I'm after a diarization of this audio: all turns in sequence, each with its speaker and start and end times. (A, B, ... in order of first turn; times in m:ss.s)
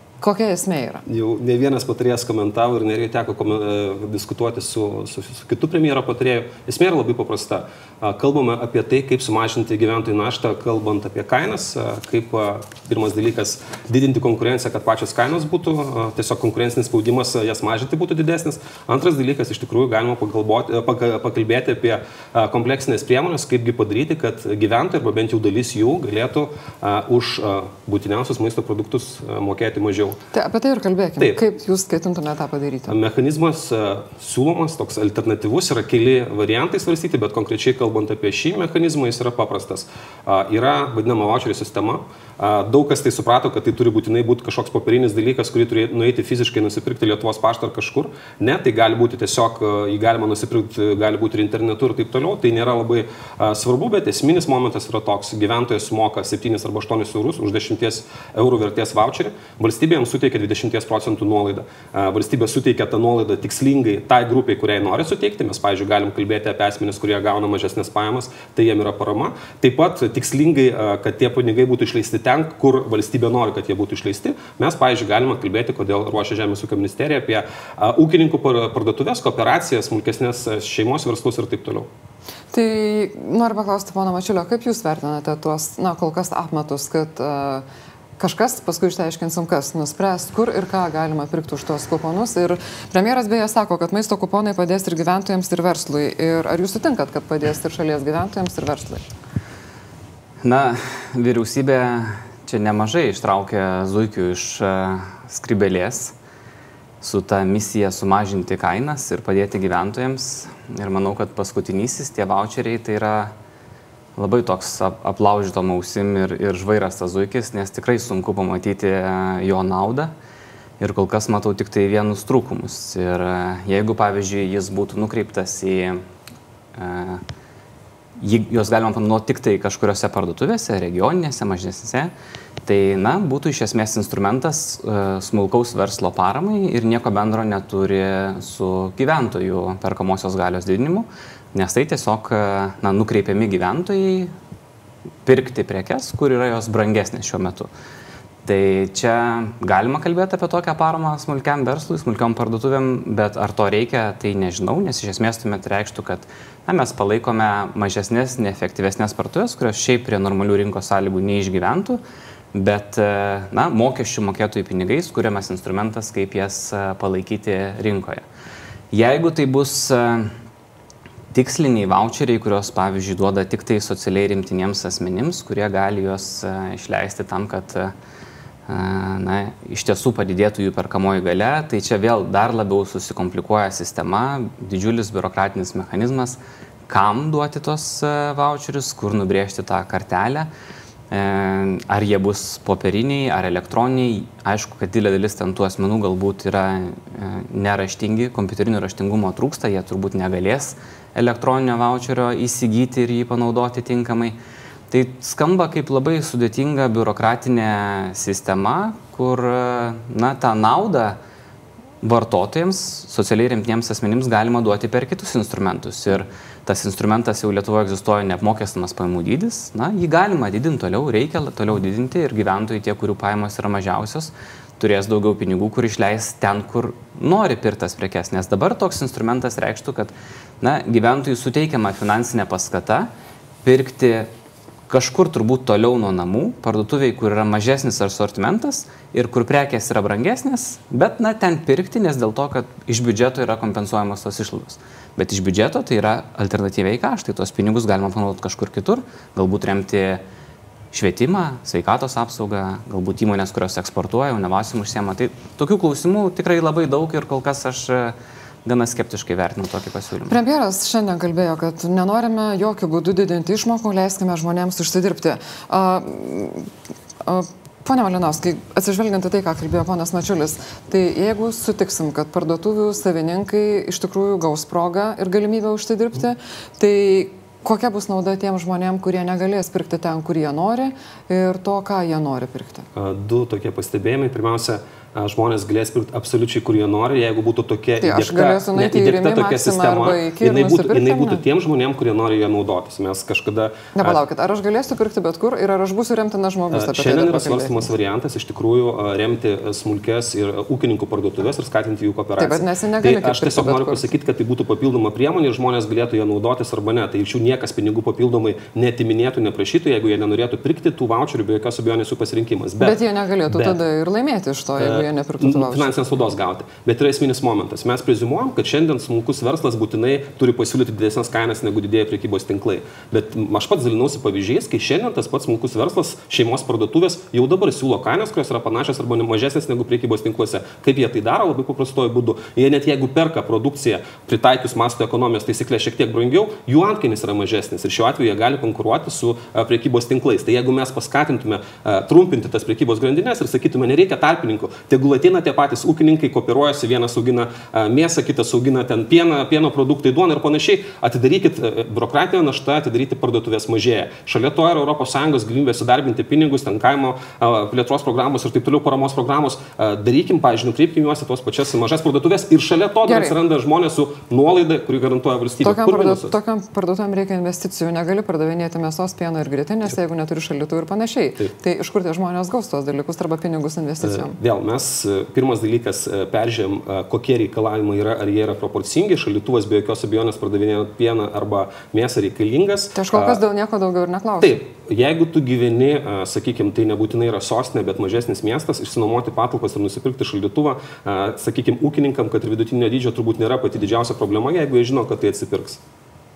0:00.2-0:01.0 A
0:01.1-0:30.2 B
0:30.3-0:33.0 A
0:32.9-1:21.9 B
1:22.5-1:27.6 A
1:28.2-1:39.0 A
1:40.4-1:46.1 C
1:47.0-1:53.3 C
1:54.2-2:00.1 C
2:00.8-2:06.0 C
2:06.8-2:07.2 C
2:08.2-2:12.1 C
2:12.6-2:24.3 C
2:25.2-2:27.7 C
2:28.4-2:42.0 C
2:42.5-2:48.2 C
2:48.9-2:50.3 C
2:51.3-2:57.9 C
2:58.7-3:10.5 C
3:11.1-3:24.4 C
3:24.9-3:31.2 C
3:32.0-3:53.1 C
3:53.6-3:54.3 C
3:54.9-4:10.2 C
4:10.9-4:20.4 C
4:20.3-4:26.7 A
4:27.2-4:42.9 A
4:43.0-4:54.2 B
4:48.0-4:51.4 A
4:54.0-4:57.9 A
4:56.7-5:13.8 B
5:02.4-5:04.1 A
5:12.8-5:16.0 A
5:14.8-6:06.3 B
6:03.0-6:03.4 A
6:05.6-6:14.4 A
6:14.0-6:23.4 B
6:23.0-6:24.6 A
6:24.4-6:35.8 B